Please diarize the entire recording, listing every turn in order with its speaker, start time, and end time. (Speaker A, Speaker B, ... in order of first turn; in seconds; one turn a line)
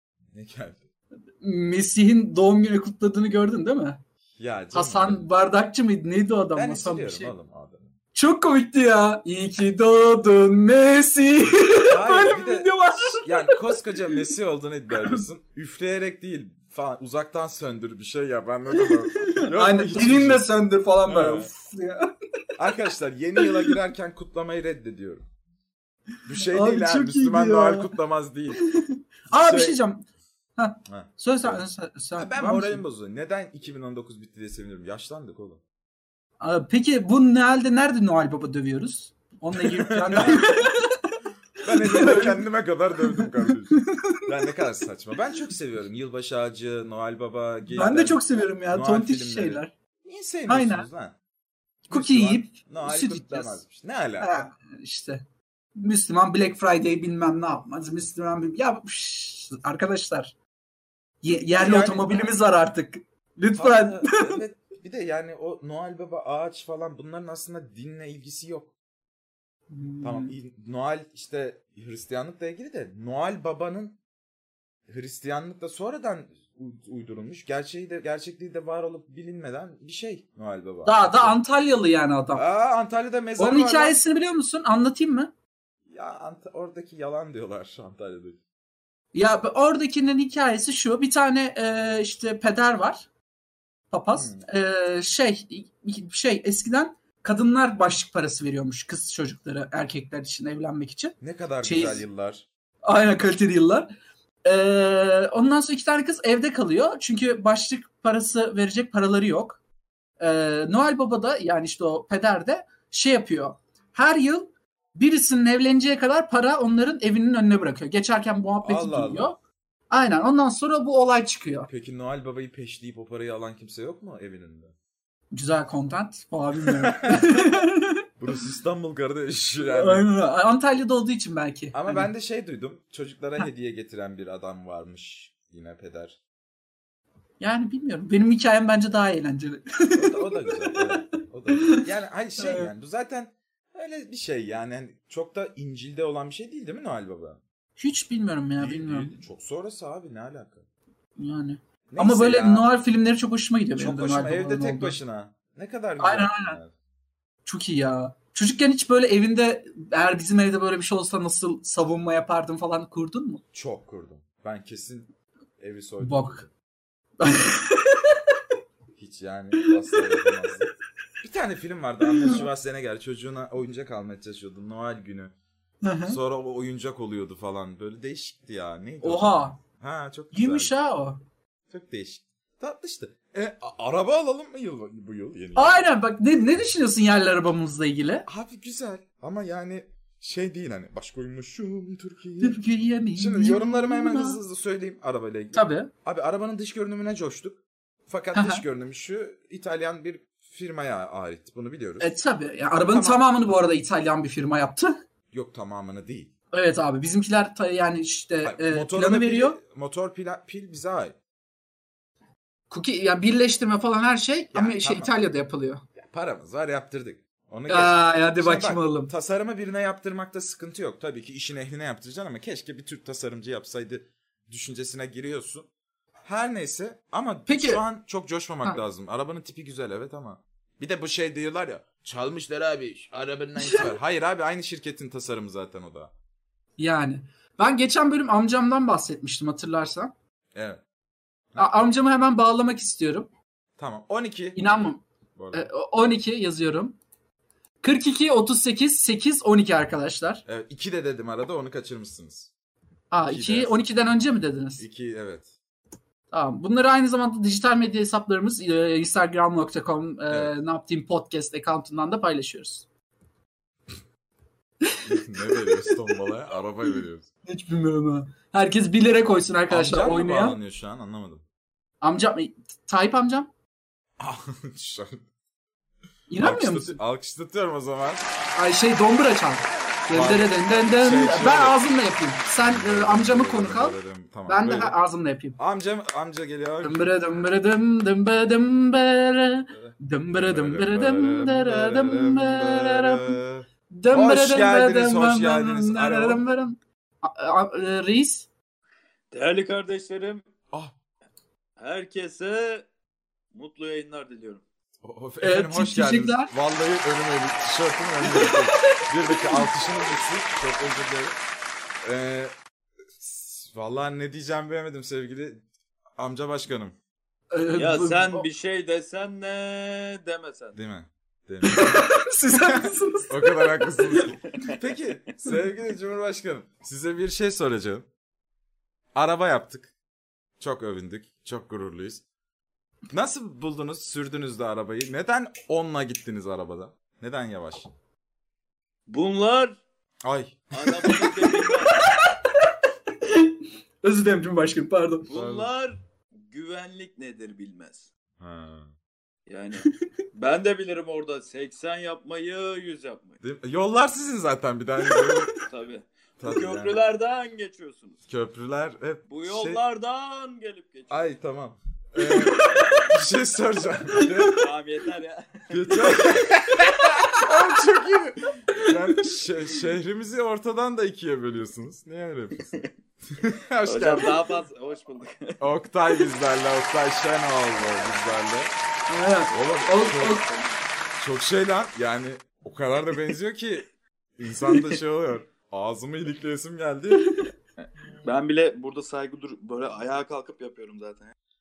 Speaker A: 0.3-0.8
Speaker B: 1.4-4.0
Speaker A: 4.4-5.3
Speaker B: 4.7-7.3
Speaker A: 6.5-7.9
Speaker B: 8.1-14.2
Speaker A: 11.8-20.5
Speaker B: 14.9-15.2
Speaker B: 18.8-22.1
Speaker A: 21.0-21.5
Speaker A: 22.6-25.2
Speaker B: 23.4-23.7
Speaker A: 26.2-28.6
Speaker B: 26.4-27.9
Speaker B: 28.6-30.1
Speaker A: 29.3-29.8
Speaker B: 30.6-32.8
Speaker A: 30.9-31.6
Speaker A: 32.2-35.6
Speaker B: 36.4-41.2
Speaker A: 39.5-40.6
Speaker A: 41.6-51.2
Speaker B: 41.8-42.4
Speaker B: 43.0-44.2
Speaker B: 47.7-49.7
Speaker B: 50.5-50.9
Speaker B: 51.9-53.6
Speaker A: 51.9-54.5
Speaker B: 54.2-55.2
Speaker B: 55.8-60.3
Speaker B: 61.2-64.4
Speaker A: 61.5-62.3
Speaker A: 63.5-68.7
Speaker B: 69.7-70.3
Speaker A: 70.0-74.0
Speaker A: 74.9-81.4
Speaker B: 80.8-82.4
Speaker A: 82.3-84.0
Speaker B: 83.4-85.3
Speaker A: 85.9-88.4
Speaker B: 89.1-93.1
Speaker B: 93.9-102.0
Speaker A: 94.1-94.5
Speaker A: 101.2-102.4
Speaker B: 102.8-103.9
Speaker B: 104.4-109.6
Speaker B: 110.2-119.4
Speaker A: 118.6-119.3
Speaker B: 119.9-121.7
Speaker A: 121.6-124.7
Speaker B: 125.3-128.0
Speaker A: 126.7-127.4
Speaker A: 128.2-130.1
Speaker B: 129.6-132.1
Speaker A: 131.7-136.2
Speaker B: 137.4-140.9
Speaker A: 139.9-147.4
Speaker B: 141.6-141.8
Speaker B: 142.4-142.7
Speaker B: 147.8-149.1
Speaker A: 148.6-150.7
Speaker B: 151.2-155.0
Speaker A: 151.9-152.7
Speaker A: 153.8-156.7
Speaker B: 156.0-156.6
Speaker B: 157.4-163.4
Speaker A: 163.5-166.5
Speaker B: 166.0-166.4
Speaker B: 167.2-168.2
Speaker A: 168.9-170.7
Speaker B: 169.9-170.2
Speaker A: 171.2-175.3
Speaker B: 172.0-172.4
Speaker B: 175.8-176.2
Speaker A: 176.0-180.7
Speaker B: 179.0-179.6
Speaker B: 180.3-181.2
Speaker A: 181.7-185.8
Speaker B: 185.6-188.3
Speaker A: 188.2-192.6
Speaker B: 192.4-194.4
Speaker A: 193.1-202.1
Speaker B: 195.5-195.9
Speaker B: 198.3-198.6
Speaker B: 202.0-205.0
Speaker A: 202.8-203.2
Speaker A: 205.3-206.3
Speaker B: 206.5-209.6
Speaker A: 208.4-211.1
Speaker B: 212.7-215.8
Speaker A: 214.5-215.1
Speaker A: 216.0-225.7
Speaker B: 217.7-219.1
Speaker A: 226.2-236.1
Speaker B: 227.5-227.8
Speaker B: 233.6-233.9
Speaker B: 236.8-240.1
Speaker A: 240.5-240.8
Speaker B: 241.6-243.3
Speaker A: 243.8-244.8
Speaker B: 244.6-245.0
Speaker A: 245.3-245.7
Speaker B: 245.5-247.0
Speaker B: 247.8-250.4
Speaker A: 250.4-252.5
Speaker B: 253.1-254.8
Speaker A: 253.3-253.8
Speaker A: 254.8-255.5
Speaker B: 256.3-262.9
Speaker A: 260.3-260.5
Speaker A: 265.0-267.3
Speaker B: 267.4-270.6
Speaker A: 269.7-271.4
Speaker B: 272.0-273.5
Speaker A: 274.2-275.2
Speaker B: 276.3-277.0
Speaker A: 276.4-278.2
Speaker B: 278.5-285.6
Speaker A: 280.1-281.8
Speaker A: 282.6-284.9
Speaker A: 285.6-287.1
Speaker B: 286.8-293.4
Speaker A: 289.7-296.4
Speaker B: 293.9-298.5
Speaker C: 299.3-300.4
Speaker C: 301.8-302.9
Speaker C: 303.5-304.6
Speaker A: 305.0-311.4
Speaker B: 305.4-306.5
Speaker B: 308.2-309.7
Speaker A: 312.0-312.5
Speaker A: 313.2-315.6
Speaker A: 316.2-316.9
Speaker B: 317.5-318.4
Speaker C: 317.7-320.8
Speaker A: 320.7-322.1
Speaker B: 321.6-324.2
Speaker A: 322.7-328.1
Speaker C: 324.6-325.2
Speaker A: 329.1-329.9
Speaker A: 330.6-332.2
Speaker A: 333.1-337.9
Speaker C: 339.1-339.8
Speaker A: 340.2-341.2
Speaker C: 340.8-342.0
Speaker B: 341.2-342.3
Speaker B: 343.2-345.3
Speaker C: 345.3-348.1
Speaker A: 345.3-345.7
Speaker A: 348.4-348.9
Speaker C: 349.5-353.4
Speaker A: 353.4-355.5
Speaker C: 355.6-358.2
Speaker A: 356.4-357.0
Speaker A: 358.3-359.8
Speaker C: 359.3-361.3
Speaker A: 361.1-364.6
Speaker B: 362.2-362.8
Speaker C: 362.6-363.1
Speaker B: 364.2-364.5
Speaker C: 364.4-366.1
Speaker A: 365.7-372.7
Speaker A: 373.3-374.4
Speaker C: 373.8-375.6
Speaker A: 375.6-378.7
Speaker B: 379.1-380.5
Speaker A: 379.5-380.4
Speaker C: 380.2-380.8
Speaker A: 381.2-387.4
Speaker C: 388.2-391.3